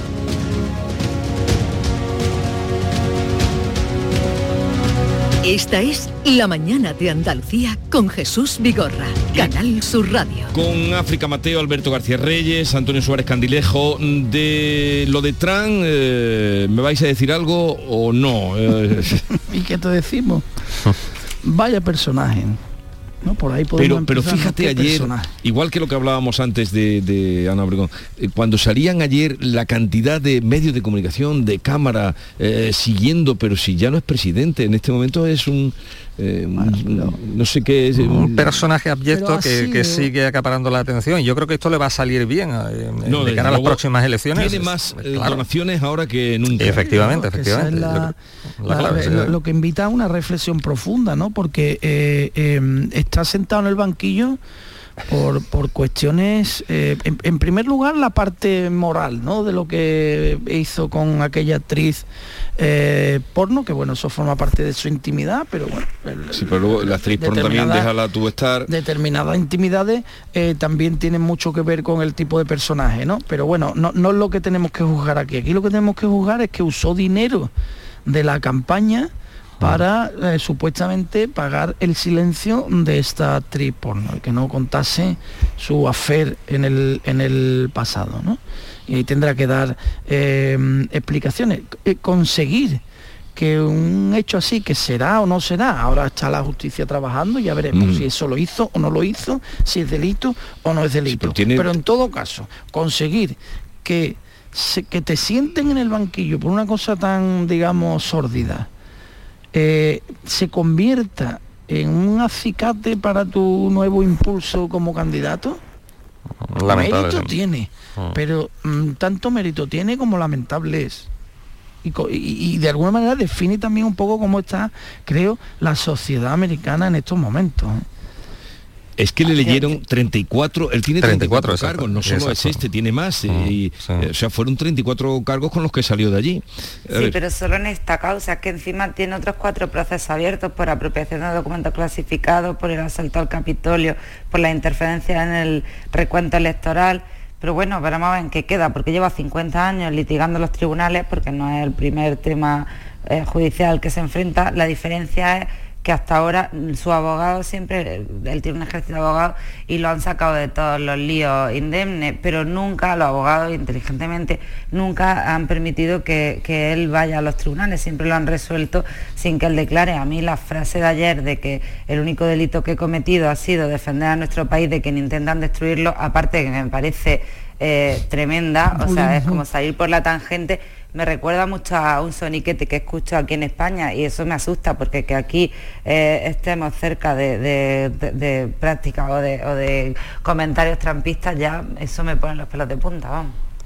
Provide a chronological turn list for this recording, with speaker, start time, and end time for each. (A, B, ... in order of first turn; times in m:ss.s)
0:05.4-0:10.5 A
0:10.5-0:19.2 B
0:19.3-0:20.4 C
0:21.4-0:22.6 C
0:23.2-0:25.3 C
0:23.8-0:38.6 B
0:36.6-0:37.2 C
0:38.0-0:45.4 D
0:39.1-0:40.1 C
0:43.0-0:43.8 B
0:44.3-0:46.9 B
0:46.6-0:49.3 D
0:46.7-0:54.4 C
0:55.1-1:02.0 C
1:02.6-1:07.9 C
1:06.3-1:08.7 B
1:08.7-1:17.5 C
1:18.0-1:32.8 C
1:33.3-1:48.7 C
1:37.7-1:38.0 B
1:41.1-1:41.7 B
1:49.5-1:55.6 C
1:56.4-1:57.3 D
1:56.6-2:01.1 C
2:01.8-2:07.8 C
2:09.0-2:17.2 B
2:11.0-2:12.6 D
2:13.3-2:14.1 D
2:16.9-3:13.3 E
2:58.7-2:59.4 C